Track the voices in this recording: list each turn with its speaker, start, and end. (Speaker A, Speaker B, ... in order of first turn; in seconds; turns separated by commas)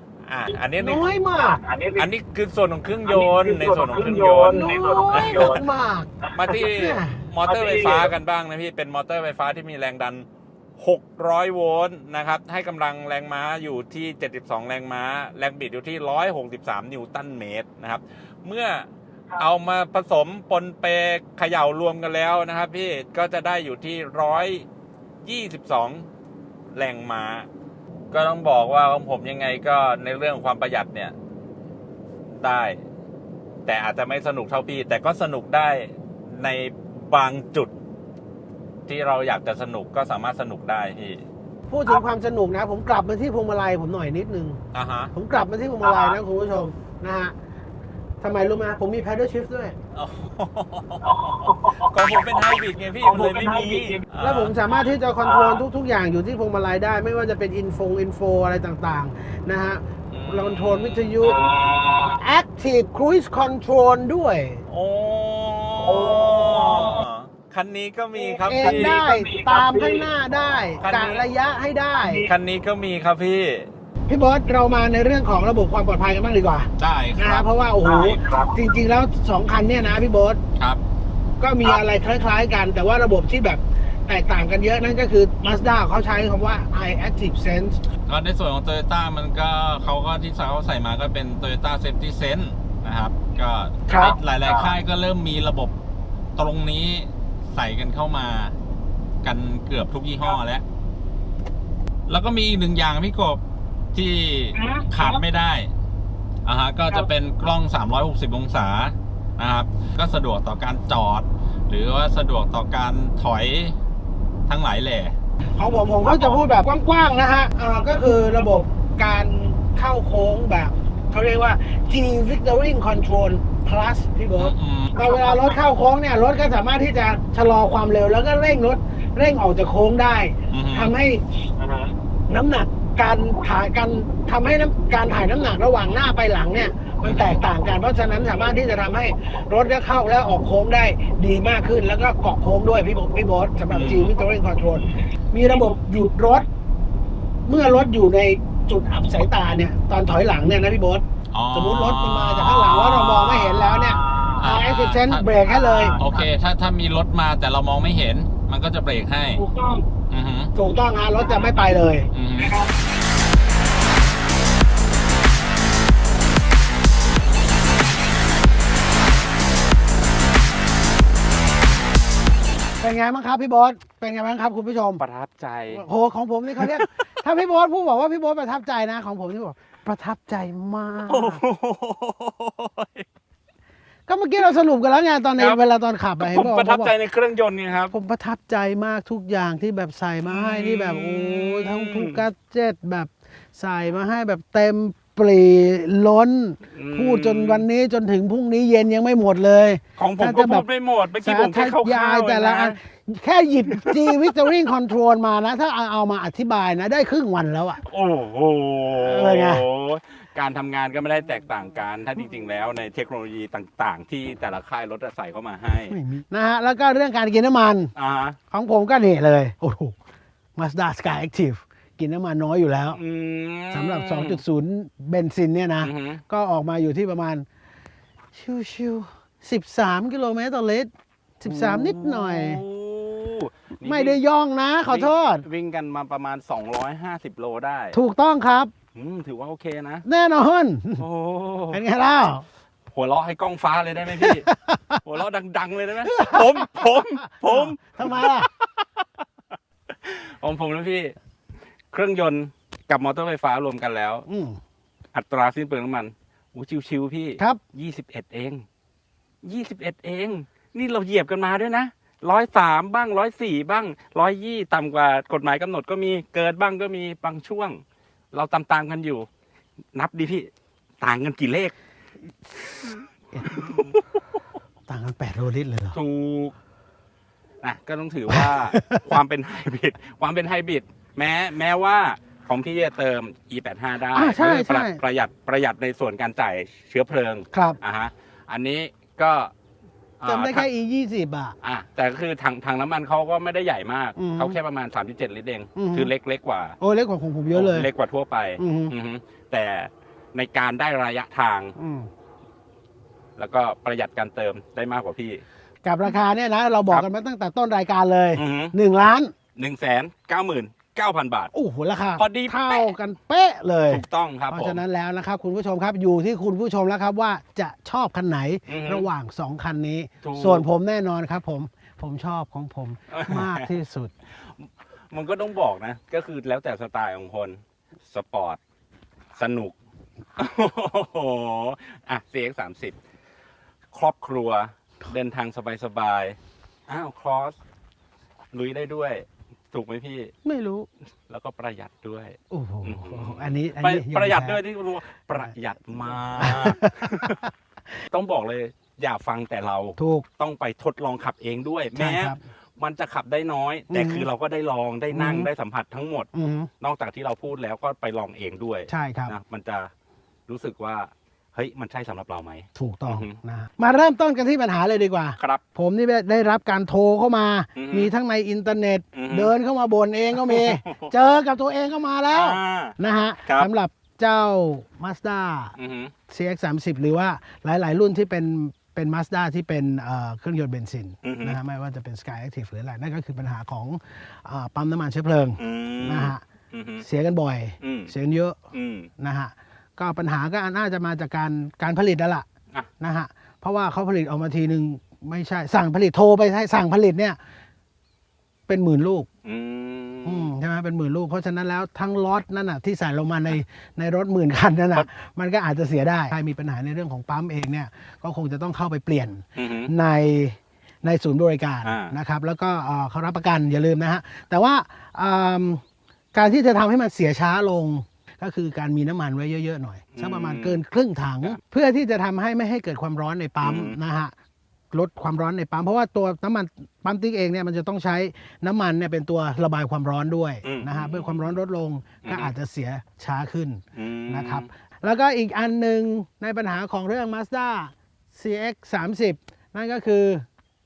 Speaker A: 0.3-1.1, Speaker B: 0.8-1.6, Speaker C: 1.4-2.1, Speaker A: 2.0-5.6, Speaker C: 3.1-5.6, Speaker B: 4.4-6.1, Speaker A: 6.3-10.2, Speaker B: 6.6-7.2, Speaker C: 7.4-8.1, Speaker A: 10.8-24.6, Speaker A: 25.2-26.1, Speaker A: 26.8-27.5, Speaker A: 28.1-31.1, Speaker A: 32.4-32.8, Speaker A: 33.6-37.7, Speaker A: 38.9-41.2, Speaker B: 41.7-44.6, Speaker A: 44.7-45.1, Speaker B: 45.1-47.3, Speaker C: 45.8-46.2, Speaker B: 48.2-49.8, Speaker A: 49.9-54.5, Speaker C: 51.0-54.1, Speaker B: 54.2-61.4, Speaker C: 55.2-55.6, Speaker A: 60.1-61.2, Speaker C: 61.3-62.1, Speaker B: 62.1-64.6, Speaker A: 64.7-69.0, Speaker C: 65.8-67.0, Speaker B: 68.2-72.3, Speaker C: 68.6-70.1, Speaker A: 70.8-71.3, Speaker A: 72.0-73.7, Speaker B: 74.1-80.4, Speaker A: 76.8-77.5, Speaker C: 77.8-78.5, Speaker B: 81.4-87.8, Speaker A: 88.1-95.7, Speaker B: 93.9-94.2, Speaker A: 96.4-98.5, Speaker A: 99.2-100.6, Speaker A: 102.1-103.4, Speaker A: 103.9-105.7, Speaker C: 104.6-104.9, Speaker A: 106.5-113.8, Speaker A: 114.5-115.1, Speaker B: 115.6-131.2, Speaker A: 116.0-116.3, Speaker A: 124.4-125.0, Speaker C: 125.1-125.4, Speaker A: 130.5-130.9, Speaker C: 131.6-131.9, Speaker B: 132.3-146.5, Speaker A: 137.0-137.4, Speaker A: 143.7-144.1, Speaker B: 147.4-156.0, Speaker A: 151.3-153.7, Speaker C: 153.8-154.4, Speaker A: 154.3-155.4, Speaker C: 155.5-156.1, Speaker A: 155.9-159.4, Speaker B: 159.4-159.8, Speaker A: 160.1-160.5, Speaker B: 160.6-162.1, Speaker A: 162.1-162.6, Speaker B: 172.8-175.0, Speaker A: 175.0-175.8, Speaker B: 175.7-181.4, Speaker A: 176.6-176.9, Speaker A: 181.1-183.1, Speaker B: 184.1-186.9, Speaker A: 186.2-187.9, Speaker B: 187.9-200.7, Speaker A: 190.3-192.2, Speaker A: 196.8-197.7, Speaker A: 200.0-202.8, Speaker B: 201.2-207.8, Speaker A: 203.7-204.3, Speaker A: 207.8-216.0, Speaker B: 209.0-209.7, Speaker B: 215.9-217.9, Speaker A: 218.0-218.4, Speaker B: 218.5-220.0, Speaker B: 220.6-223.0, Speaker A: 222.9-224.4, Speaker B: 223.7-227.5, Speaker A: 225.8-226.2, Speaker B: 228.3-232.6, Speaker A: 231.5-234.2, Speaker B: 233.8-235.4, Speaker A: 234.9-238.0, Speaker B: 237.9-238.7, Speaker A: 238.9-240.1, Speaker B: 240.1-241.1, Speaker A: 241.0-241.8, Speaker B: 241.7-242.5, Speaker A: 242.9-244.5, Speaker B: 244.2-245.0, Speaker A: 245.0-249.2, Speaker B: 246.1-246.9, Speaker B: 247.4-248.5, Speaker A: 249.9-251.1, Speaker A: 251.9-254.2, Speaker B: 254.3-254.6, Speaker A: 255.1-258.6, Speaker A: 259.4-267.8, Speaker A: 268.3-269.3, Speaker A: 269.9-270.5, Speaker A: 271.0-271.7, Speaker B: 273.3-273.8, Speaker A: 273.4-274.0, Speaker B: 274.9-276.0, Speaker A: 275.9-276.5, Speaker A: 277.6-289.5, Speaker B: 278.3-279.0, Speaker B: 284.1-285.0, Speaker B: 287.5-287.8, Speaker A: 290.2-290.7, Speaker B: 290.2-291.6, Speaker A: 291.6-296.8, Speaker B: 294.1-294.6, Speaker B: 295.8-296.1, Speaker B: 296.8-297.9, Speaker A: 297.5-301.8, Speaker B: 298.6-298.9, Speaker B: 301.8-302.1, Speaker A: 303.4-305.4, Speaker B: 305.8-309.3, Speaker A: 308.4-308.8, Speaker A: 309.6-311.5, Speaker B: 311.5-324.1, Speaker A: 312.1-312.9, Speaker A: 313.9-314.8, Speaker A: 318.7-319.1, Speaker A: 320.2-320.7, Speaker A: 323.1-323.7, Speaker A: 325.1-328.6, Speaker A: 329.4-329.8, Speaker A: 330.4-333.0, Speaker A: 333.9-337.6, Speaker A: 338.5-340.3, Speaker B: 340.4-340.9, Speaker A: 341.3-347.4, Speaker B: 342.5-344.6, Speaker B: 346.4-347.4, Speaker A: 348.1-356.3, Speaker B: 350.0-350.3, Speaker B: 351.9-352.4, Speaker B: 353.9-354.3, Speaker B: 355.1-355.5, Speaker B: 356.3-356.7, Speaker A: 356.8-359.9, Speaker B: 358.9-359.4, Speaker A: 360.5-363.4, Speaker B: 362.8-375.8, Speaker A: 365.4-365.6, Speaker A: 367.8-368.1, Speaker A: 369.1-369.5, Speaker A: 370.3-371.1, Speaker A: 372.3-373.7, Speaker A: 375.8-376.1, Speaker B: 376.3-386.4, Speaker A: 381.2-381.6, Speaker A: 385.6-387.1, Speaker B: 387.0-388.6, Speaker A: 387.8-388.1, Speaker A: 388.7-389.1, Speaker B: 389.2-392.5, Speaker B: 393.0-397.4, Speaker B: 398.7-399.3, Speaker A: 399.4-400.5, Speaker B: 400.2-415.8, Speaker A: 409.6-409.9, Speaker A: 411.8-412.1, Speaker B: 416.3-424.3, Speaker A: 420.1-420.8, Speaker A: 423.6-424.0, Speaker B: 424.9-440.4, Speaker A: 430.6-431.5, Speaker A: 432.2-432.5, Speaker A: 434.0-434.7